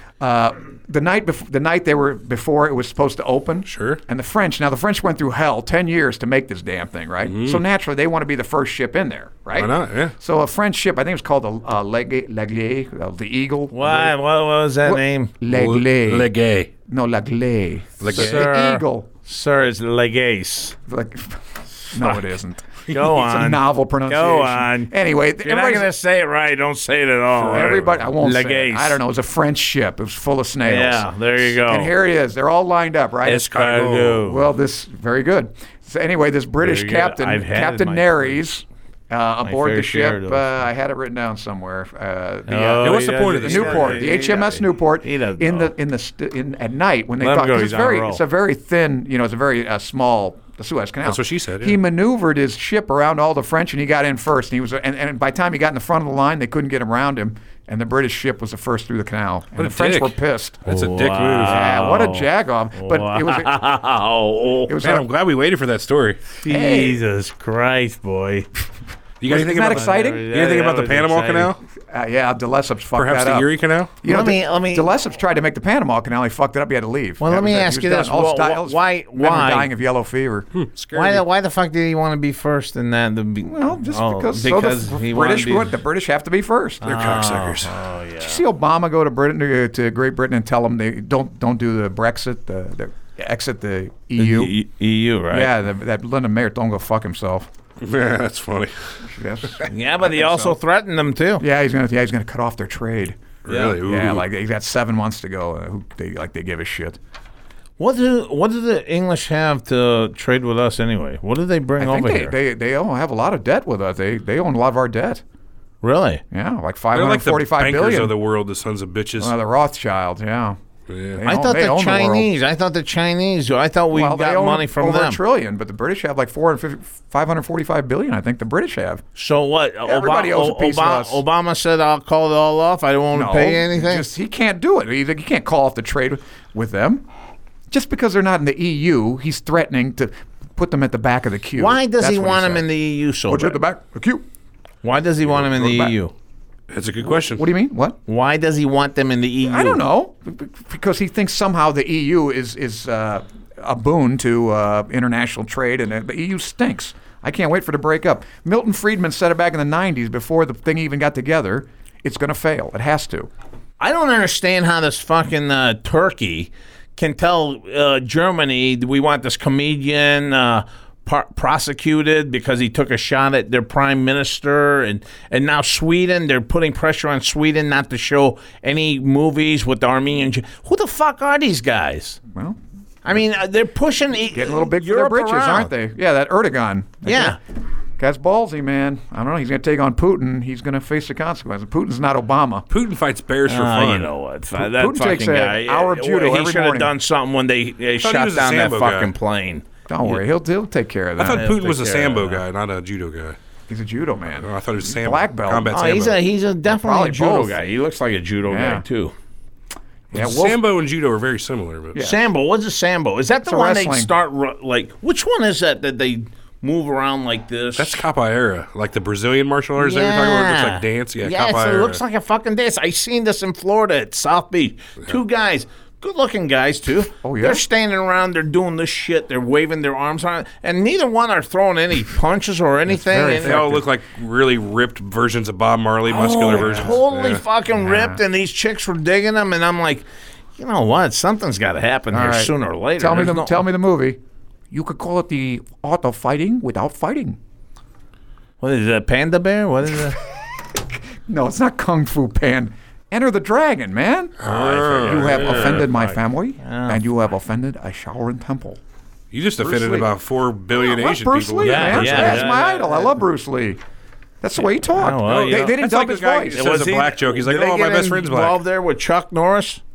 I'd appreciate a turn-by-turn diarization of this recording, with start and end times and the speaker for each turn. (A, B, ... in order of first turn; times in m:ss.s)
0:00.2-0:14.1 A
0:03.6-0:04.0 B
0:07.2-0:07.6 B
0:09.5-0:10.1 B
0:13.7-0:15.3 C
0:14.8-0:16.3 A
0:15.5-0:16.7 B
0:16.9-0:19.1 A
0:18.0-0:18.5 B
0:18.1-0:20.7 C
0:20.9-0:25.9 A
0:21.9-0:22.2 C
0:22.9-0:24.9 C
0:25.4-0:29.0 C
0:27.3-0:28.1 B
0:27.5-0:33.6 A
0:30.6-0:31.9 C
0:33.2-0:34.4 C
0:33.5-0:34.2 B
0:34.2-1:00.6 A
0:36.6-0:38.4 C
0:39.4-0:40.6 C
0:42.5-0:45.7 C
0:42.8-0:44.1 B
0:47.2-0:48.2 C
0:51.0-0:51.8 B
0:59.6-1:01.6 B
1:00.6-1:04.7 C
1:01.4-1:03.5 A
1:04.7-1:05.0 A
1:04.8-1:06.2 B
1:06.4-1:08.5 C
1:06.5-1:07.0 A
1:09.2-1:11.6 B
1:09.3-1:10.2 A
1:09.6-1:11.5 C
1:11.8-1:13.5 A
1:13.0-1:13.9 B
1:14.0-1:20.5 A
1:14.0-1:14.9 C
1:17.2-1:19.7 C
1:20.5-1:21.2 B
1:20.9-1:25.7 C
1:23.4-1:27.0 A
1:26.8-1:28.4 C
1:26.8-1:27.7 B
1:28.2-1:34.5 A
1:34.2-1:35.5 C
1:35.3-1:37.5 A
1:37.8-1:39.0 B
1:39.0-1:40.6 A
1:39.6-1:41.4 C
1:41.4-1:43.2 A
1:43.4-1:44.2 B
1:43.5-1:43.8 C
1:43.8-1:47.0 A
1:47.8-1:52.3 C
1:51.8-1:55.2 A
1:55.8-1:56.2 C
1:56.3-1:58.1 A
1:56.9-1:59.3 B
1:59.2-2:00.6 A
2:00.9-2:01.2 B
2:01.2-2:02.3 A
2:01.2-2:05.2 C
2:03.9-2:09.0 A
2:09.2-2:14.1 C
2:09.8-2:11.2 A
2:13.1-2:17.0 A
2:17.7-2:22.6 A
2:21.6-2:23.6 C
2:23.3-2:24.2 A
2:24.8-2:26.1 C
2:25.4-2:25.9 A
2:26.7-2:27.4 B
2:27.0-2:28.0 A
2:28.1-2:29.8 C
2:29.5-2:43.3 A
2:43.8-3:02.2 C
3:02.3-3:02.6 A
3:03.0-3:05.7 C
3:04.3-3:07.4 A
3:07.0-3:07.4 C
3:08.0-3:12.6 A
3:12.7-3:14.1 B
3:13.5-3:20.2 C
3:14.6-3:16.9 A
3:18.0-3:19.1 B
3:19.9-3:21.5 A
3:21.2-3:23.4 B
3:21.2-3:22.4 C
3:23.7-3:25.7 A
3:24.4-3:26.2 B
3:25.7-3:29.1 C
3:26.6-3:27.6 A
3:28.4-3:28.8 A
3:30.1-3:30.6 A
3:30.1-3:32.0 B
3:31.9-3:32.2 A
3:32.0-3:38.0 C
3:33.4-3:34.1 A
3:37.8-3:42.0 B
3:39.8-3:53.6 C
3:47.2-3:47.6 A
3:52.9-3:53.8 A
3:53.4-3:57.4 B
3:56.1-4:00.0 C
3:56.4-3:57.0 A
3:57.8-3:58.2 A
4:00.6-4:03.6 C
4:02.1-4:04.2 A
4:04.7-4:07.4 A
4:08.6-4:10.2 C
4:10.7-4:14.4 A
4:14.4-4:15.9 B
4:14.4-4:17.0 C
4:15.0-4:18.8 A
4:19.3-4:22.5 B
4:19.6-4:20.1 A
4:20.7-4:23.8 A
4:21.6-4:23.1 C
4:24.4-4:26.6 A
4:24.9-4:25.8 C
4:25.2-4:28.6 B
4:26.5-4:29.8 C